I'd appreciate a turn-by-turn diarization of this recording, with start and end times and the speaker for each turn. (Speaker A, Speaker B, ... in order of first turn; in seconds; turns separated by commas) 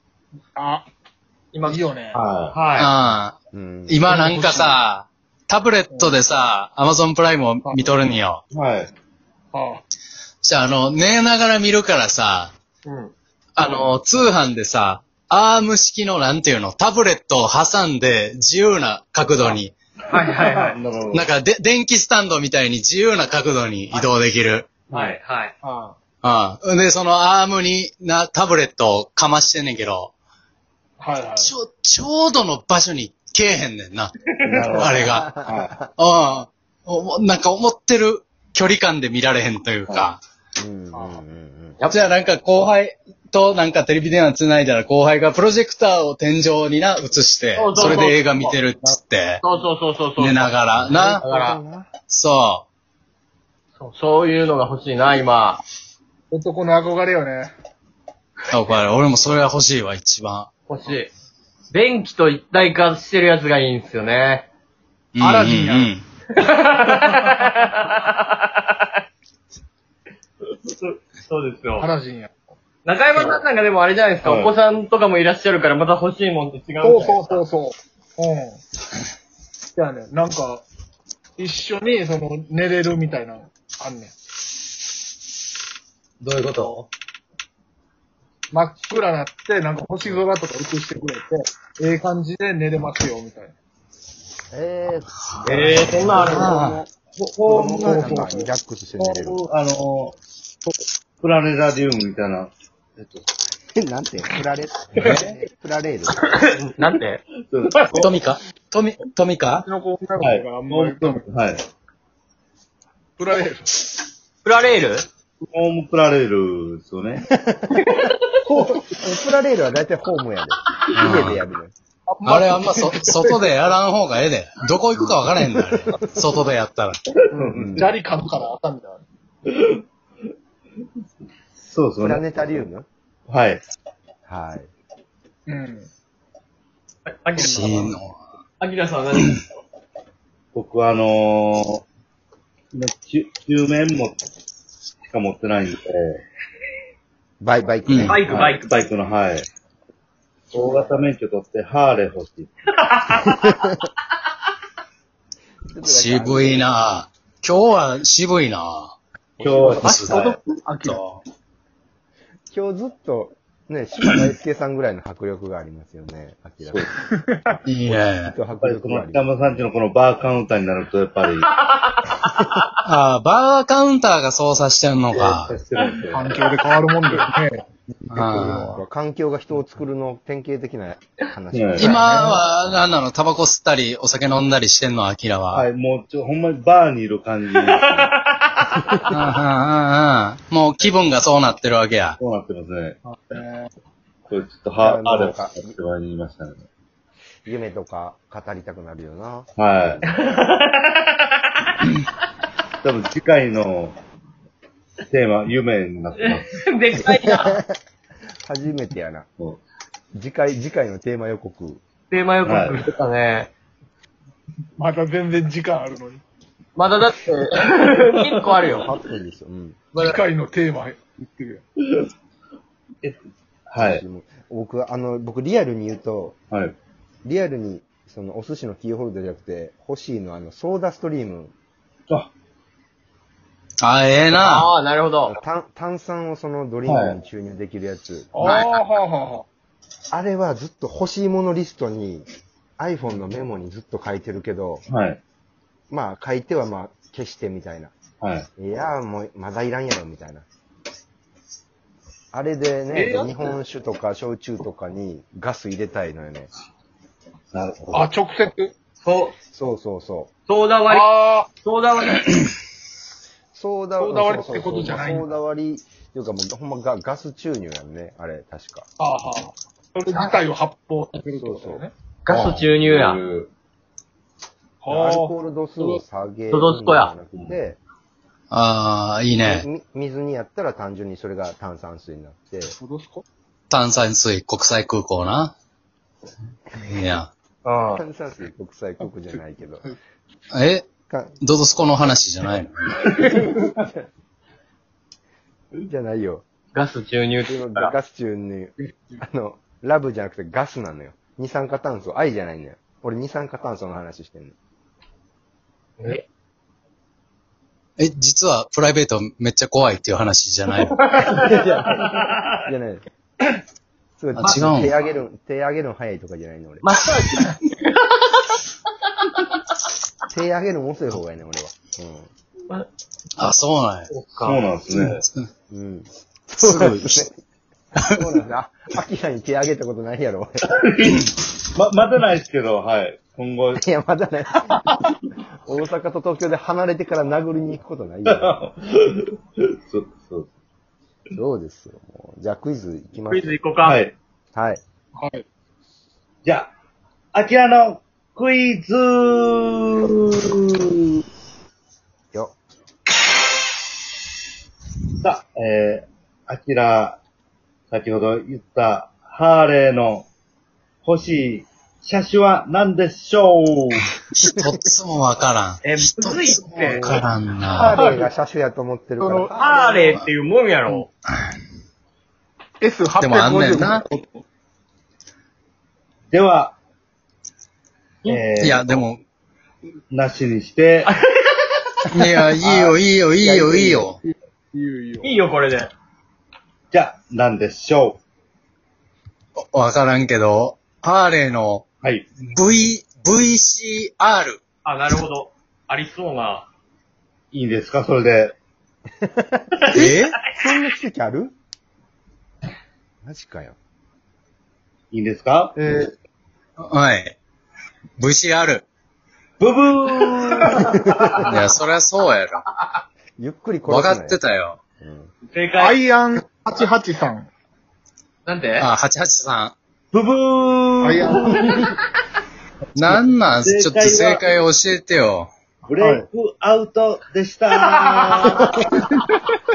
Speaker A: 0.5-0.9, Speaker B: 1.5-1.9, Speaker A: 1.6-2.2, Speaker C: 2.1-2.5, Speaker B: 2.5-2.9, Speaker D: 2.8-3.3, Speaker E: 3.5-4.0, Speaker D: 3.9-8.4, Speaker A: 4.1-4.8, Speaker A: 5.9-6.2, Speaker C: 8.5-8.9, Speaker A: 9.5-9.8, Speaker D: 10.4-12.5, Speaker B: 12.8-13.1, Speaker D: 13.6-19.7, Speaker B: 20.1-20.8, Speaker A: 20.4-20.7, Speaker C: 20.7-21.3, Speaker D: 21.1-24.8, Speaker B: 24.9-25.5, Speaker A: 24.9-25.9, Speaker D: 26.2-30.1, Speaker A: 31.0-31.5, Speaker D: 31.4-34.1, Speaker B: 34.3-34.9, Speaker C: 34.5-35.8, Speaker D: 34.7-35.4, Speaker E: 35.0-35.9, Speaker D: 36.0-40.2, Speaker E: 40.6-41.8, Speaker A: 40.9-41.2, Speaker D: 41.9-49.4, Speaker B: 47.5-48.6, Speaker B: 49.4-50.5, Speaker D: 50.2-51.2, Speaker E: 50.8-51.9, Speaker B: 51.2-51.6, Speaker D: 52.1-52.6, Speaker B: 53.8-55.6, Speaker A: 56.3-57.5, Speaker D: 58.5-60.5, Speaker B: 60.7-61.1, Speaker B: 61.7-64.5, Speaker D: 65.1-66.0, Speaker A: 65.2-65.9, Speaker B: 66.3-68.8, Speaker B: 71.2-71.9, Speaker A: 71.8-72.3, Speaker B: 72.8-77.4, Speaker C: 74.2-74.5, Speaker A: 76.8-78.6, Speaker A: 79.7-80.6, Speaker A: 81.4-84.1, Speaker D: 86.2-86.9, Speaker A: 88.5-93.5, Speaker E: 94.5-96.9, Speaker B: 95.5-96.6, Speaker D: 95.5-96.8, Speaker C: 97.1-98.3, Speaker A: 97.5-98.5, Speaker E: 97.5-99.4, Speaker C: 99.0-100.2, Speaker C: 101.2-103.3, Speaker E: 103.8-106.2, Speaker B: 106.3-107.2, Speaker C: 107.5-108.1, Speaker D: 108.0-109.7, Speaker A: 109.6-111.2, Speaker C: 110.2-111.6, Speaker A: 113.2-113.8, Speaker B: 114.4-115.0, Speaker C: 115.5-117.3, Speaker E: 117.3-117.9, Speaker B: 117.8-118.2, Speaker E: 118.8-121.7, Speaker D: 120.9-121.4, Speaker A: 122.1-123.4, Speaker D: 122.2-127.0, Speaker C: 127.2-127.9, Speaker E: 127.5-127.9, Speaker A: 127.8-129.0, Speaker C: 129.5-129.8, Speaker C: 131.6-132.2, Speaker E: 132.0-132.9, Speaker C: 133.3-133.6, Speaker E: 134.3-134.7, Speaker A: 135.5-135.9, Speaker B: 137.1-137.9, Speaker A: 137.4-137.9, Speaker D: 137.4-138.2, Speaker B: 138.6-139.4, Speaker C: 140.5-141.8, Speaker C: 142.7-144.2, Speaker C: 145.1-146.2, Speaker E: 147.4-148.2, Speaker D: 147.9-148.2, Speaker B: 148.0-148.7, Speaker C: 148.2-149.5, Speaker C: 150.5-152.5, Speaker E: 153.4-153.8, Speaker E: 155.7-156.7, Speaker D: 155.8-158.9, Speaker C: 159.4-160.4, Speaker A: 159.5-161.0, Speaker D: 159.7-161.2, Speaker E: 162.5-166.9, Speaker C: 166.7-166.9, Speaker A: 167.1-167.5, Speaker E: 167.5-169.4, Speaker D: 167.7-168.3, Speaker C: 168.6-171.5, Speaker B: 171.6-172.4, Speaker D: 172.8-175.5, Speaker C: 175.1-176.5, Speaker A: 176.1-177.6, Speaker D: 178.1-178.7, Speaker E: 178.2-182.4, Speaker A: 178.3-178.8, Speaker C: 181.5-181.9, Speaker D: 181.8-185.7, Speaker A: 181.8-182.4, Speaker C: 185.5-188.2, Speaker B: 187.8-188.7, Speaker D: 189.1-192.2, Speaker C: 192.2-193.0, Speaker A: 193.1-193.7, Speaker C: 194.3-196.7, Speaker E: 194.8-195.7, Speaker E: 197.4-199.5, Speaker C: 199.6-200.1, Speaker B: 200.0-201.7, Speaker C: 202.8-204.0, Speaker C: 205.1-206.6, Speaker B: 206.2-207.6, Speaker E: 207.1-207.7, Speaker E: 208.4-209.3, Speaker E: 210.1-211.8, Speaker B: 212.1-213.5, Speaker C: 212.4-212.8, Speaker A: 214.8-216.2, Speaker B: 216.8-218.9, Speaker E: 218.7-219.8, Speaker B: 219.9-220.2, Speaker A: 220.0-221.6, Speaker C: 221.8-222.1, Speaker C: 223.0-224.0, Speaker E: 223.8-226.4, Speaker C: 226.5-226.8, Speaker E: 227.2-231.5, Speaker D: 233.8-234.7, Speaker B: 234.3-235.3, Speaker E: 235.3-238.3, Speaker C: 236.8-237.2, Speaker A: 238.3-239.4, Speaker D: 238.4-238.8, Speaker E: 240.1-244.8, Speaker C: 244.9-245.2, Speaker E: 245.9-247.9, Speaker C: 248.2-248.5, Speaker E: 248.6-250.4, Speaker E: 252.3-256.5, Speaker B: 252.9-253.2, Speaker C: 257.5-258.1, Speaker A: 257.9-258.7, Speaker B: 259.0-259.3, Speaker E: 259.5-260.3, Speaker B: 260.5-262.4, Speaker A: 260.9-261.5, Speaker E: 263.5-268.9, Speaker A: 264.0-265.3, Speaker A: 269.0-271.9, Speaker E: 271.3-271.9, Speaker B: 272.2-273.2, Speaker C: 272.3-273.5, Speaker A: 274.8-276.0, Speaker E: 274.9-277.8, Speaker B: 276.5-277.1, Speaker D: 278.5-279.6, Speaker E: 279.4-282.7, Speaker A: 282.8-283.2, Speaker D: 283.7-285.5, Speaker D: 286.8-287.3, Speaker B: 287.6-288.0, Speaker E: 287.9-289.9, Speaker D: 290.5-290.9, Speaker E: 291.1-291.4, Speaker D: 291.4-293.0, Speaker E: 293.2-294.0, Speaker E: 295.8-296.4, Speaker B: 296.7-297.9, Speaker E: 297.5-304.5, Speaker D: 308.0-311.0, Speaker B: 310.9-312.5, Speaker E: 311.2-313.0, Speaker E: 314.2-316.8, Speaker D: 314.4-314.9, Speaker B: 314.4-314.7, Speaker B: 316.8-318.5, Speaker E: 320.3-322.3, Speaker D: 323.4-324.1, Speaker B: 324.1-324.6, Speaker C: 324.4-325.2, Speaker D: 324.9-325.5, Speaker E: 325.7-327.3, Speaker D: 326.6-327.3, Speaker E: 328.0-330.7, Speaker C: 330.7-333.8, Speaker E: 333.8-335.1, Speaker E: 335.6-338.5, Speaker C: 338.3-340.5, Speaker E: 341.3-343.6, Speaker B: 343.3-344.0, Speaker C: 343.8-344.1, Speaker E: 344.5-344.8, Speaker A: 345.1-345.4, Speaker C: 346.4-346.7, Speaker C: 347.3-351.1, Speaker C: 355.2-357.2, Speaker C: 357.9-360.3, Speaker C: 361.0-364.1, Speaker D: 364.3-368.0, Speaker B: 365.8-367.0, Speaker E: 366.9-369.8, Speaker A: 367.9-368.3, Speaker A: 369.2-370.1, Speaker B: 369.6-371.1, Speaker A: 372.8-374.4, Speaker D: 373.2-374.0, Speaker C: 376.3-376.8, Speaker C: 378.2-379.0, Speaker D: 378.6-379.2, Speaker C: 380.1-381.1, Speaker B: 381.1-381.6, Speaker D: 382.1-384.2, Speaker A: 382.7-385.4, Speaker B: 385.2-385.9, Speaker C: 386.9-388.2, Speaker D: 389.6-391.8, Speaker C: 392.0-392.3, Speaker D: 392.4-394.6, Speaker B: 394.8-396.7, Speaker C: 397.5-398.5, Speaker E: 399.2-401.5, Speaker D: 399.9-400.4, Speaker E: 403.2-403.8, Speaker C: 405.1-405.7, Speaker A: 405.8-406.1, Speaker D: 406.8-407.4, Speaker D: 408.2-408.8, Speaker C: 409.6-411.0, Speaker E: 411.0-411.6, Speaker D: 411.4-412.6, Speaker E: 413.4-414.4, Speaker D: 413.9-414.8, Speaker E: 415.0-415.3, Speaker B: 415.5-416.0, Speaker A: 415.8-417.5, Speaker B: 418.4-418.9, Speaker D: 418.8-419.7, Speaker C: 420.1-421.7, Speaker A: 421.0-421.8, Speaker D: 422.9-425.5, Speaker C: 423.6-424.4, Speaker C: 425.9-428.7, Speaker A: 425.9-426.2, Speaker B: 428.0-428.5, Speaker E: 428.6-429.0, Speaker A: 429.2-429.5